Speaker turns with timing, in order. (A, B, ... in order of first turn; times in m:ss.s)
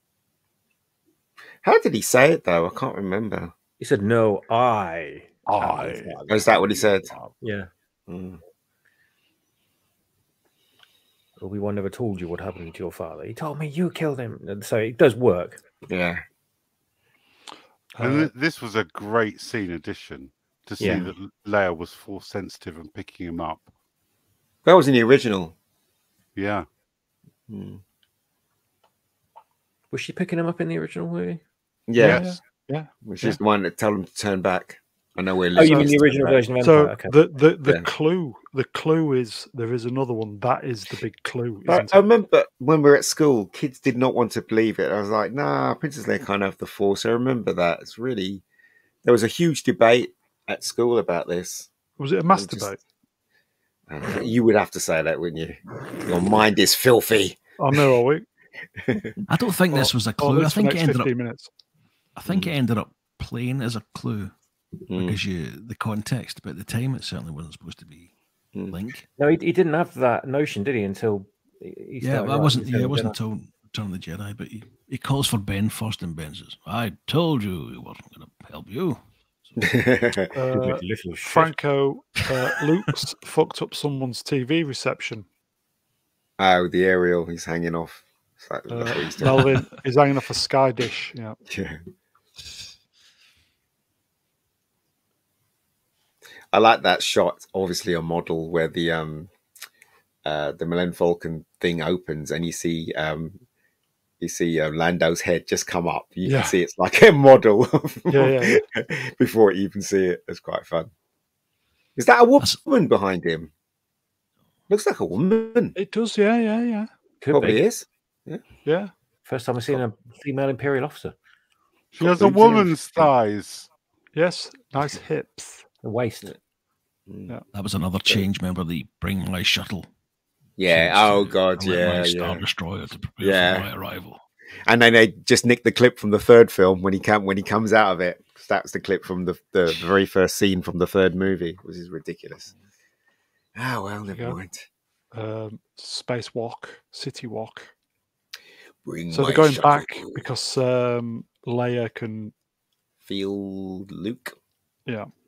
0:01.6-0:03.5 A
0:03.8-0:05.9 B
0:05.5-0:07.3 C
0:06.3-0:07.1 A
0:07.4-0:07.7 B
0:08.1-0:08.4 A
0:11.4-0:15.6 B
0:15.9-0:16.2 A
0:18.0-0:18.3 D
0:18.0-0:23.7 C
0:20.8-0:21.1 B
0:20.8-0:21.1 A
0:24.6-0:25.6 A
0:26.4-0:26.7 C
0:27.5-0:27.8 A
0:29.9-0:31.4 B
0:31.9-0:32.2 A
0:32.0-0:32.3 C
0:32.0-0:33.4 D
0:33.0-0:36.4 A
0:35.5-0:37.1 B
0:35.6-0:35.9 D
0:36.6-0:42.1 D
0:41.7-0:48.4 A
0:49.0-0:51.7 A
0:52.0-0:52.8 D
0:52.3-0:52.8 A
0:53.9-0:57.8 A
0:57.6-0:58.2 D
0:58.8-0:59.1 A
0:59.3-1:01.1 E
0:59.7-1:01.5 D
1:02.2-1:04.3 E
1:02.3-1:02.5 A
1:04.9-1:05.2 A
1:04.9-1:08.1 E
1:08.7-1:09.1 E
1:09.2-1:13.2 B
1:12.0-1:19.0 E
1:19.6-1:20.3 A
1:20.3-1:25.3 D
1:20.6-1:21.5 B
1:26.4-1:29.6 A
1:28.7-1:31.4 D
1:31.5-1:31.8 A
1:36.5-1:39.3 A
1:40.2-1:43.4 A
1:44.2-1:50.9 A
1:46.2-1:46.6 D
1:48.1-1:48.6 D
1:52.0-1:53.5 A
1:54.7-1:55.8 A
1:55.8-1:56.9 D
1:57.2-1:57.6 B
1:57.3-1:58.4 A
1:58.6-1:58.9 D
1:59.3-2:01.1 B
2:01.9-2:03.7 C
2:02.0-2:02.7 A
2:04.1-2:05.6 D
2:05.8-2:06.4 B
2:07.1-2:07.3 A
2:07.5-2:09.9 E
2:10.6-2:12.4 A
2:10.7-2:14.2 E
2:13.2-2:13.7 A
2:14.6-2:22.5 A
2:23.6-2:24.6 A
2:24.1-2:24.4 D
2:25.1-2:27.7 D
2:28.8-2:30.2 A
2:29.1-2:32.3 D
2:33.1-2:34.4 A